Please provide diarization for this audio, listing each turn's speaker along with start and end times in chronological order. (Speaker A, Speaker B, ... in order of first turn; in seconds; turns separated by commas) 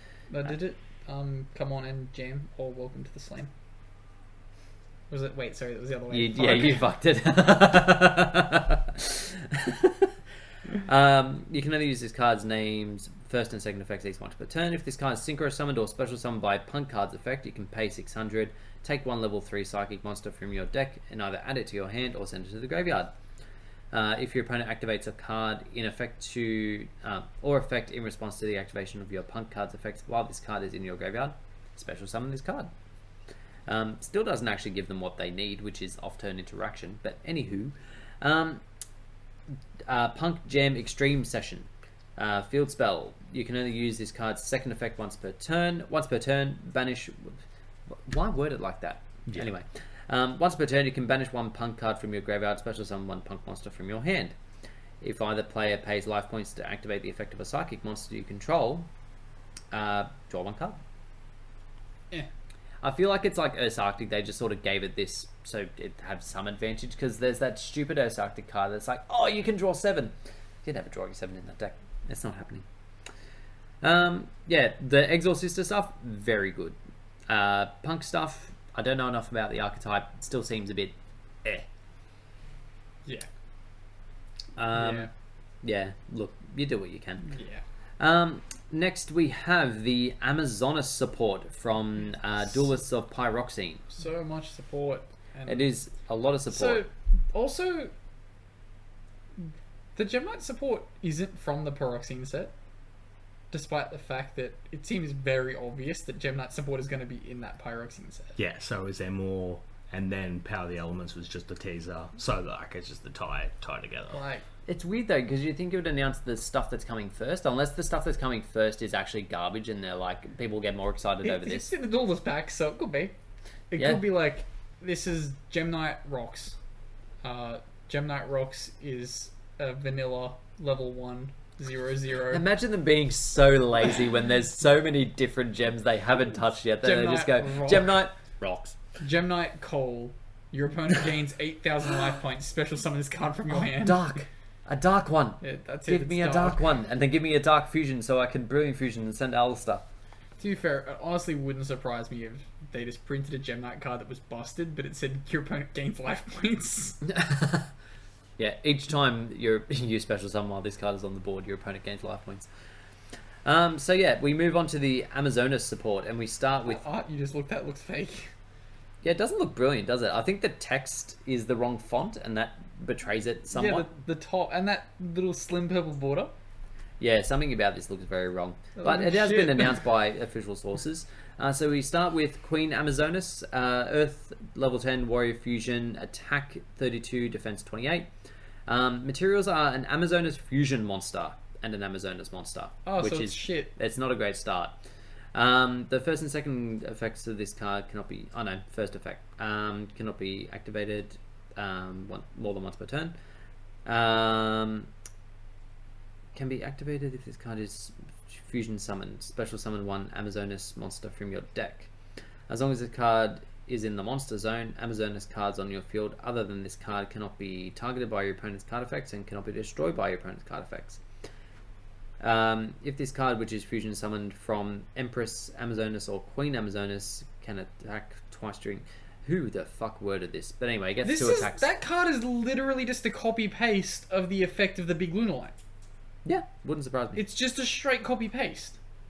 Speaker A: 0.3-3.5, Speaker A: 5.1-6.9, Speaker B: 6.1-10.1, Speaker B: 10.8-23.1, Speaker B: 23.9-32.7, Speaker B: 33.7-38.6, Speaker B: 39.9-54.4, Speaker B: 55.0-58.9, Speaker B: 59.7-60.8, Speaker B: 62.8-72.7, Speaker B: 73.8-76.8, Speaker B: 77.3-81.7, Speaker B: 84.6-85.1, Speaker A: 84.7-85.1, Speaker B: 85.6-87.3, Speaker A: 87.3-87.6, Speaker B: 88.0-93.9, Speaker A: 94.0-95.7, Speaker B: 95.5-96.8, Speaker A: 96.5-97.9, Speaker A: 99.4-102.5, Speaker A: 103.5-108.4, Speaker C: 108.4-114.2, Speaker A: 114.1-114.5, Speaker B: 114.7-121.7, Speaker A: 121.2-123.2, Speaker A: 123.7-126.5, Speaker B: 123.8-124.0, Speaker A: 127.2-132.4, Speaker B: 132.3-138.8, Speaker A: 136.8-137.9, Speaker A: 139.0-144.1, Speaker B: 143.5-149.9, Speaker A: 145.4-146.7, Speaker A: 150.4-157.0, Speaker B: 157.0-157.7, Speaker B: 158.4-162.5, Speaker B: 163.4-166.8, Speaker A: 166.7-168.3, Speaker B: 169.0-173.9, Speaker A: 173.5-176.3, Speaker B: 177.0-188.1, Speaker A: 178.8-179.8, Speaker B: 188.7-194.8, Speaker A: 192.9-193.7, Speaker B: 195.3-203.2, Speaker B: 203.8-204.9, Speaker B: 206.3-211.9, Speaker B: 212.5-221.0, Speaker B: 222.2-231.7, Speaker A: 231.0-235.6, Speaker B: 236.2-237.2, Speaker A: 237.2-238.8